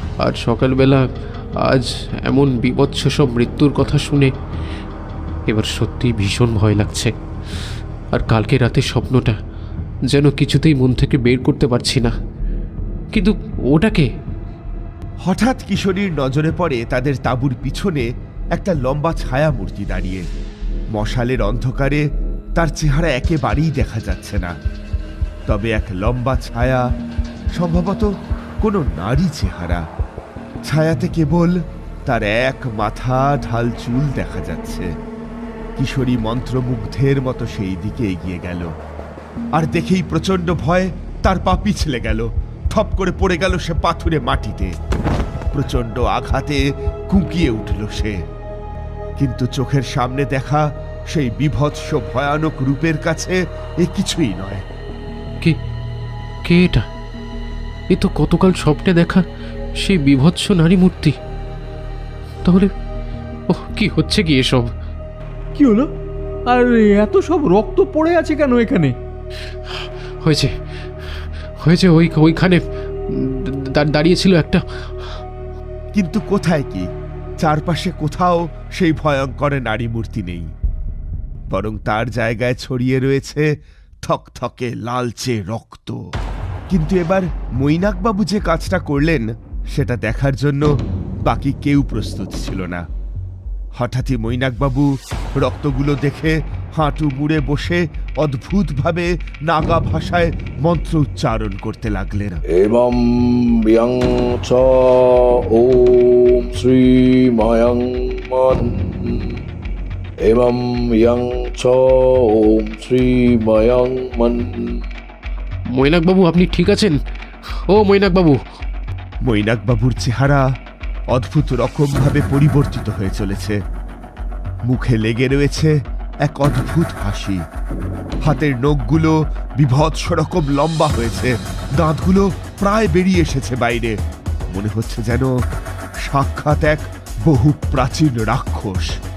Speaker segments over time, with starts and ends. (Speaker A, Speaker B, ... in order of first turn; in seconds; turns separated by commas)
Speaker A: 0.2-1.0, Speaker A: 1.6-4.3, Speaker A: 5.5-7.1, Speaker A: 8.1-9.4, Speaker A: 10.1-12.1, Speaker A: 13.1-14.1, Speaker B: 15.3-20.2, Speaker B: 20.9-22.0, Speaker B: 22.6-24.5, Speaker B: 25.5-26.8, Speaker B: 27.6-28.1, Speaker B: 28.6-29.8, Speaker B: 30.7-34.9, Speaker B: 35.8-38.7, Speaker B: 39.6-44.7, Speaker B: 45.5-48.2, Speaker B: 49.2-54.6, Speaker A: 56.5-56.8, Speaker A: 57.9-59.2, Speaker A: 59.8-61.1, Speaker A: 63.5-64.7, Speaker C: 65.6-65.9, Speaker C: 66.5-68.9, Speaker A: 70.2-70.5, Speaker A: 71.6-72.6, Speaker A: 73.2-74.6, Speaker B: 75.9-76.9, Speaker B: 77.4-80.5, Speaker B: 81.5-83.5, Speaker B: 84.1-86.0, Speaker B: 86.7-90.7, Speaker B: 91.3-92.8, Speaker B: 93.8-102.4, Speaker D: 102.5-109.4, Speaker D: 110.2-114.8, Speaker A: 115.8-117.0, Speaker A: 117.7-118.4, Speaker B: 119.3-120.5, Speaker B: 121.1-123.6, Speaker B: 124.7-125.8, Speaker B: 126.3-127.4, Speaker B: 128.2-134.0, Speaker B: 134.5-135.3, Speaker B: 136.1-139.0